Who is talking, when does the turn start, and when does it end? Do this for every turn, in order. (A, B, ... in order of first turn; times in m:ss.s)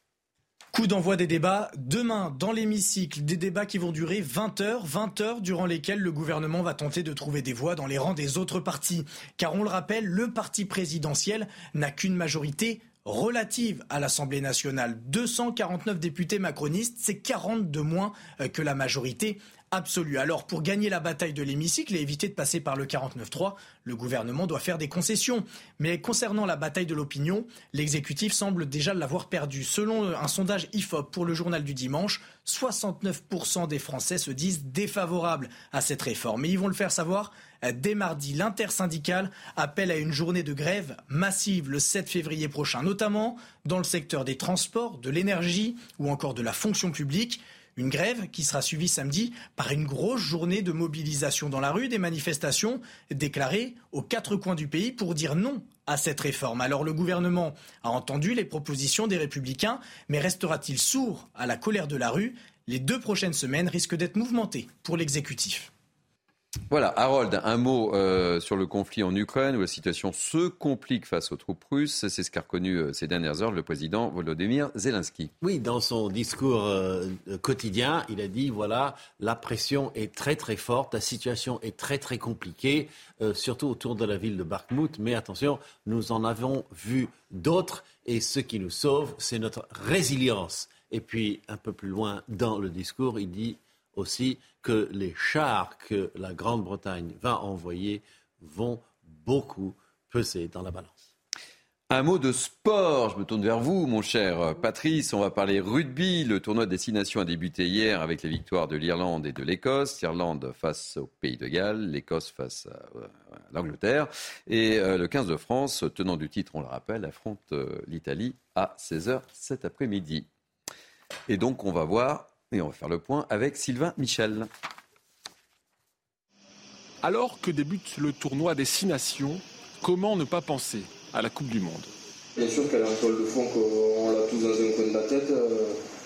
0:00.7-1:05.7 A
1:06.7-1:15.3 B
1:15.4-1:41.1 C
1:41.9-2:00.3 B
2:01.3-2:04.5 B
2:07.0-2:11.9 D
2:12.4-2:15.7 E